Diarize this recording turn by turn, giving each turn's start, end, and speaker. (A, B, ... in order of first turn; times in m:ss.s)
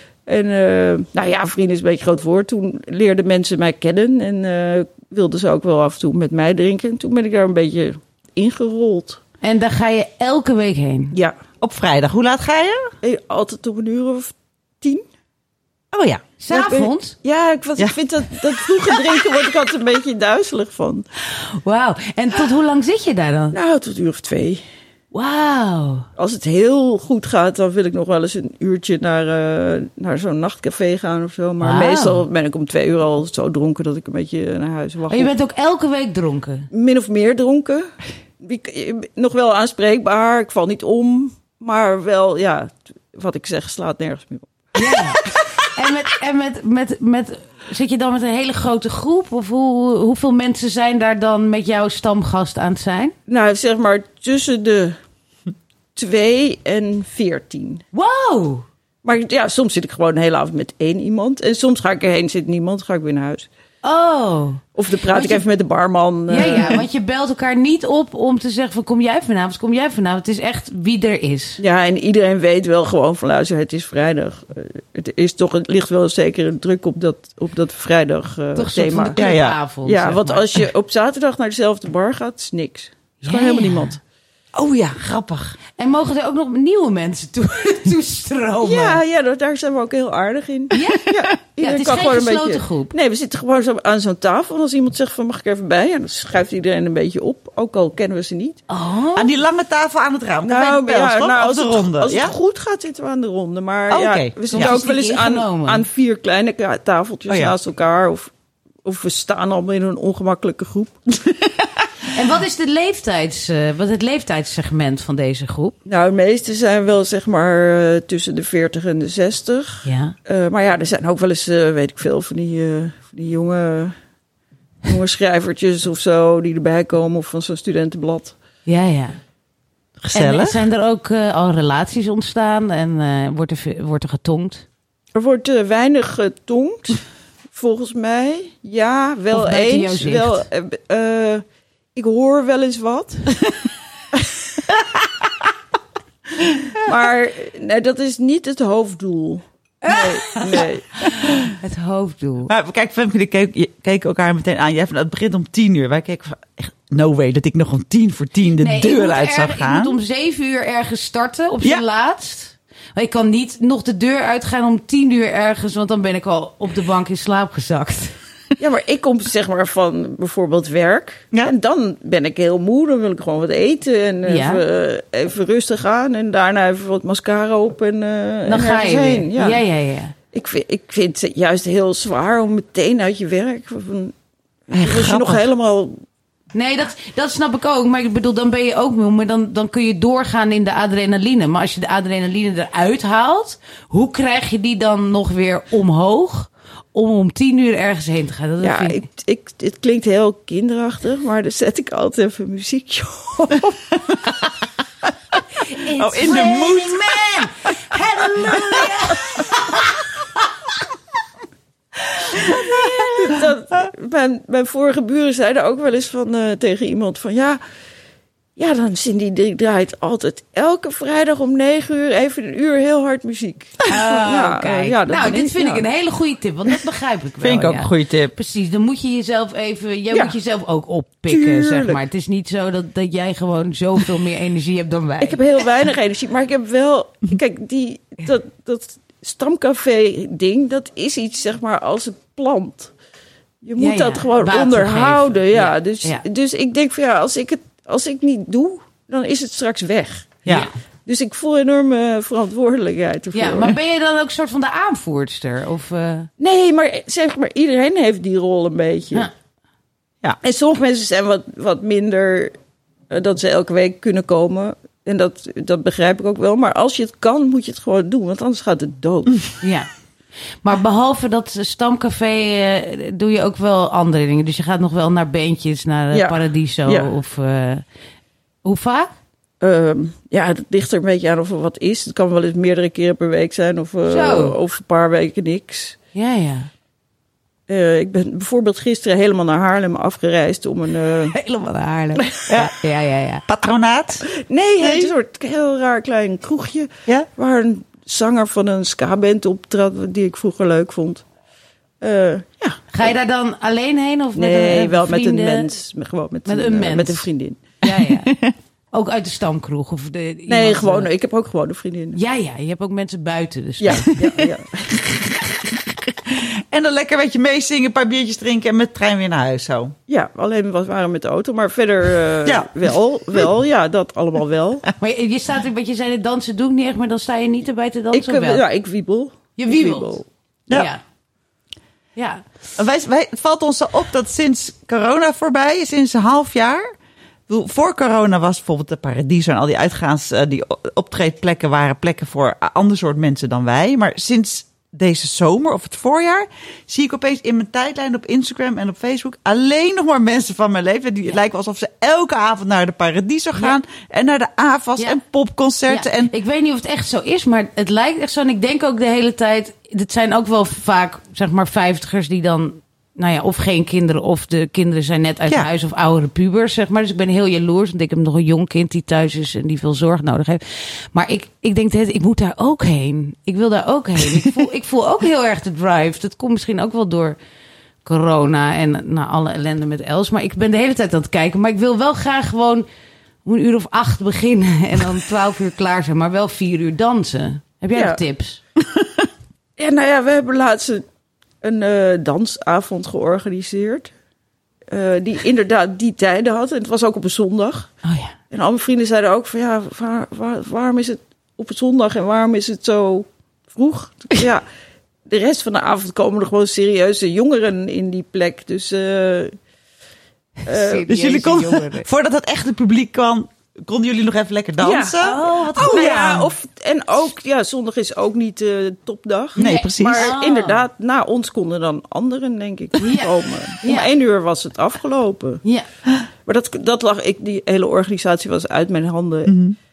0:00.3-0:09.2 A
0:09.4-0:11.2 B
0:11.6-0:12.9 C
0:13.0-0:15.0 A
0:15.9-0:16.3 C
0:16.4-0:17.2 B
0:16.5-0:21.1 A
0:21.5-0:23.6 B
0:23.5-0:24.6 A
0:25.1-0:26.0 B
0:26.2-0:35.3 A
0:31.6-0:32.2 B
0:35.1-0:36.7 B
0:36.7-0:37.9 A
0:38.4-0:44.8 A
0:44.8-0:53.2 B
0:53.3-0:55.0 A
0:56.0-0:57.8 A
0:57.9-0:58.6 B
0:59.0-1:03.5 A
1:03.8-1:05.4 B
1:04.8-1:06.8 A
1:06.3-1:11.6 B
1:11.6-1:19.2 A
1:18.6-1:20.5 B
1:19.2-1:19.6 C
1:19.8-1:24.0 A
1:23.2-1:24.0 B
1:24.5-1:25.6 C
1:25.8-1:29.0 B
1:28.6-1:38.6 A
1:30.7-1:32.9 B
1:38.7-1:39.3 B
1:39.2-1:42.3 C
1:40.4-1:48.3 A
1:43.9-1:44.8 C
1:44.5-1:45.8 B
1:47.3-1:47.5 C
1:48.8-1:51.2 A
1:52.1-1:55.8 B
1:55.8-2:04.0 A
1:59.8-2:00.1 B
2:04.8-2:08.4 A
2:08.7-2:09.2 B
2:10.0-2:10.6 C
2:10.1-2:14.6 B
2:15.2-2:17.0 A
2:17.5-2:21.4 A
2:19.3-2:20.5 B
2:22.0-2:23.5 A
2:24.2-2:24.6 A
2:26.8-2:31.0 A
2:29.9-2:30.6 B
2:31.5-2:32.5 B
2:32.5-2:40.0 C
2:38.6-2:48.2 B
2:48.6-2:59.6 A
2:54.3-2:54.6 B
2:58.5-3:00.1 B
3:00.3-3:04.1 A
3:04.7-3:06.0 A
3:04.7-3:05.4 C
3:06.5-3:19.0 B
3:18.6-3:23.8 A
3:24.1-3:24.4 C
3:25.7-3:29.9 B
3:26.0-3:27.5 C
3:28.5-3:28.9 C
3:32.4-3:32.8 B
3:32.5-3:37.6 A
3:38.6-3:45.9 A
3:43.9-3:55.4 B
3:47.4-3:48.3 C
3:51.3-3:52.0 A
3:55.2-4:02.9 A
4:03.6-4:10.5 A
4:03.8-4:06.2 B
4:11.1-4:13.8 A
4:13.3-4:16.3 B
4:16.4-4:19.3 A
4:20.4-4:22.5 A
4:23.1-4:29.5 A
4:29.6-4:29.9 B
4:30.6-4:37.8 B
4:36.1-4:37.1 A
4:38.6-4:39.1 B
4:39.6-4:46.0 A
4:44.1-4:44.6 B
4:46.2-4:46.7 B
4:47.7-4:51.4 A
4:51.3-4:53.4 B
4:53.5-4:54.3 C
4:54.3-5:01.2 A
4:54.8-4:55.1 C
5:02.0-5:02.9 A
5:02.9-5:05.7 B
5:04.4-5:07.6 A
5:06.5-5:07.3 B
5:07.8-5:08.3 B
5:08.1-5:08.5 C
5:08.9-5:11.1 B
5:10.5-5:12.2 A
5:12.2-5:14.2 B
5:13.8-5:15.0 A
5:15.7-5:20.0 C
5:20.1-5:24.9 A
5:22.4-5:22.7 C
5:25.0-5:28.6 B
5:28.1-5:30.2 A
5:29.6-5:30.2 B
5:30.7-5:31.0 B
5:32.2-5:32.4 B
5:32.8-5:36.9 C
5:37.5-5:56.3 C
5:55.9-6:17.4 B
6:18.0-6:22.9 B
6:23.4-6:28.6 B
6:28.0-6:28.2 A
6:29.8-6:31.0 A
6:31.6-6:34.1 A
6:34.9-6:37.9 A
6:38.0-6:38.3 B
6:38.5-6:44.6 A
6:45.3-6:49.6 A
6:50.7-6:52.1 B
6:50.7-6:51.1 A
6:51.1-6:56.5 C
6:54.8-7:05.6 A
6:55.2-6:56.2 B
6:59.6-7:00.8 B
6:59.6-7:00.3 C
7:03.0-7:04.1 B
7:06.5-7:09.6 A
7:09.5-7:09.8 C